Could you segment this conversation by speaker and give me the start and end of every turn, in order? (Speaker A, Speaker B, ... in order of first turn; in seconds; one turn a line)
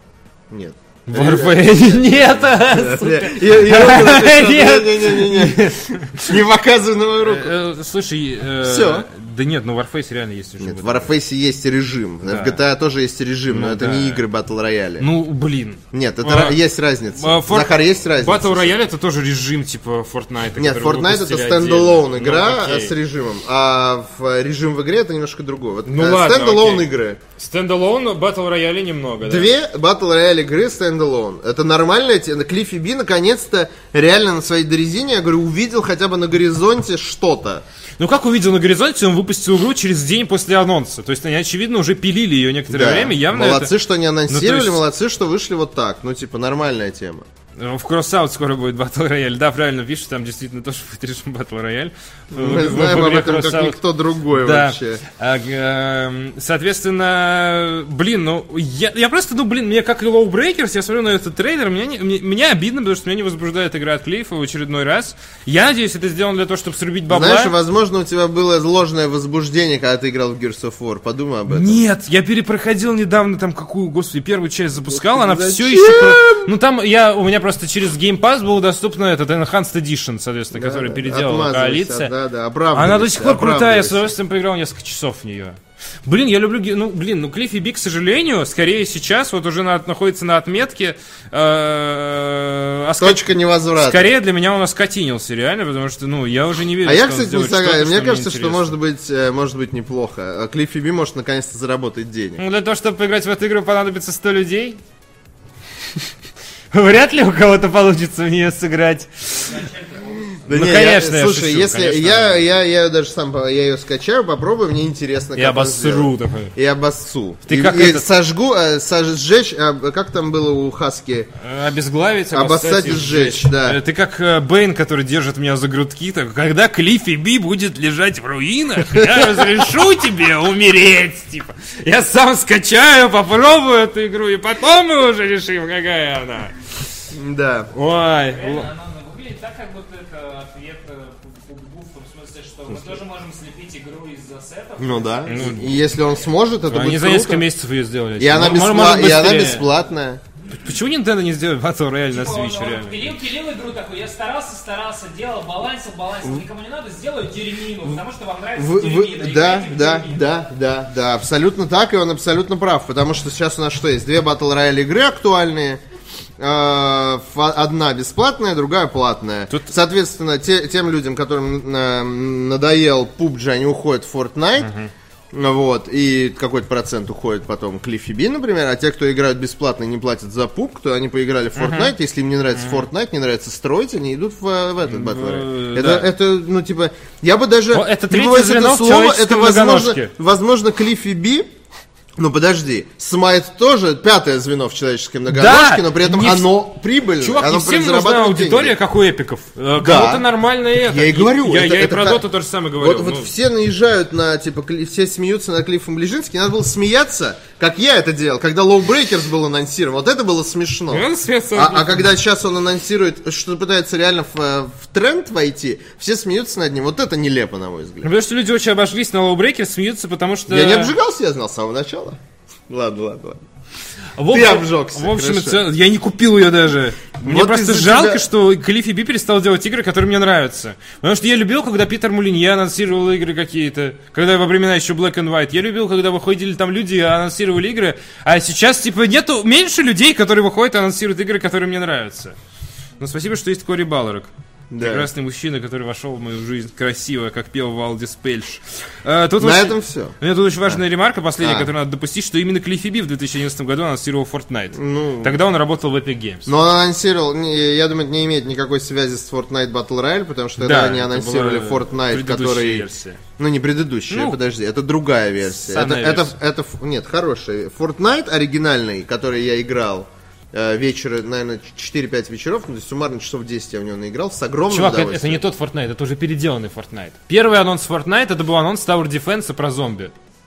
Speaker A: 0.5-7.5
Speaker B: 1.1-6.4
Speaker B: 7.2-11.1
Speaker A: 8.6-9.1
Speaker A: 10.6-15.1
Speaker B: 12.3-12.6
Speaker B: 13.5-14.3
Speaker B: 15.0-16.6
Speaker A: 15.9-18.8
Speaker B: 17.1-22.9
Speaker A: 20.6-27.2
Speaker B: 25.9-29.5
Speaker A: 29.2-37.6
Speaker B: 38.0-43.7
Speaker A: 42.7-47.3
Speaker B: 44.3-44.9
Speaker B: 47.6-67.6
Speaker A: 52.3-55.0
Speaker A: 67.1-71.8
Speaker B: 71.5-82.1
Speaker A: 74.8-76.5
Speaker A: 80.5-84.1
Speaker B: 82.7-98.7
Speaker A: 93.0-94.1
Speaker A: 96.8-102.4
Speaker B: 102.4-104.8
Speaker B: 106.7-109.6
Speaker C: 109.3-110.4
Speaker A: 110.4-121.3
Speaker B: 110.5-112.4
Speaker B: 115.4-116.5
Speaker B: 117.5-118.1
Speaker B: 121.4-136.6
Speaker A: 122.3-123.8
Speaker A: 128.9-129.4
Speaker A: 137.1-137.7
Speaker B: 137.7-138.7
Speaker C: 138.3-146.2
Speaker A: 144.8-147.5
Speaker B: 145.3-145.8
Speaker B: 146.7-149.7
Speaker A: 148.2-150.2
Speaker B: 150.5-153.2
Speaker C: 152.1-160.3
Speaker A: 158.6-165.8
Speaker A: 166.4-174.7
Speaker B: 174.6-174.9
Speaker A: 175.3-191.5
Speaker B: 181.6-181.9
Speaker B: 182.6-182.9
Speaker B: 184.9-186.1
Speaker B: 187.7-190.1
Speaker A: 192.2-198.8
Speaker B: 195.3-196.5
Speaker B: 197.2-203.3
Speaker A: 199.8-202.2
Speaker A: 202.8-218.1
Speaker B: 210.9-212.1
Speaker B: 218.0-220.9
Speaker A: 220.5-222.2
Speaker A: 222.7-223.4
Speaker B: 224.2-242.4
Speaker A: 224.3-225.7
Speaker A: 227.2-228.3
Speaker B: 243.0-256.5
Speaker A: 244.7-245.1
Speaker A: 249.4-250.2
Speaker A: 251.4-251.7
Speaker A: 254.7-255.4
Speaker A: 256.5-262.9
Speaker B: 260.6-263.2
Speaker A: 263.4-275.4
Speaker B: 264.1-264.4
Speaker B: 265.4-266.3
Speaker B: 274.7-280.1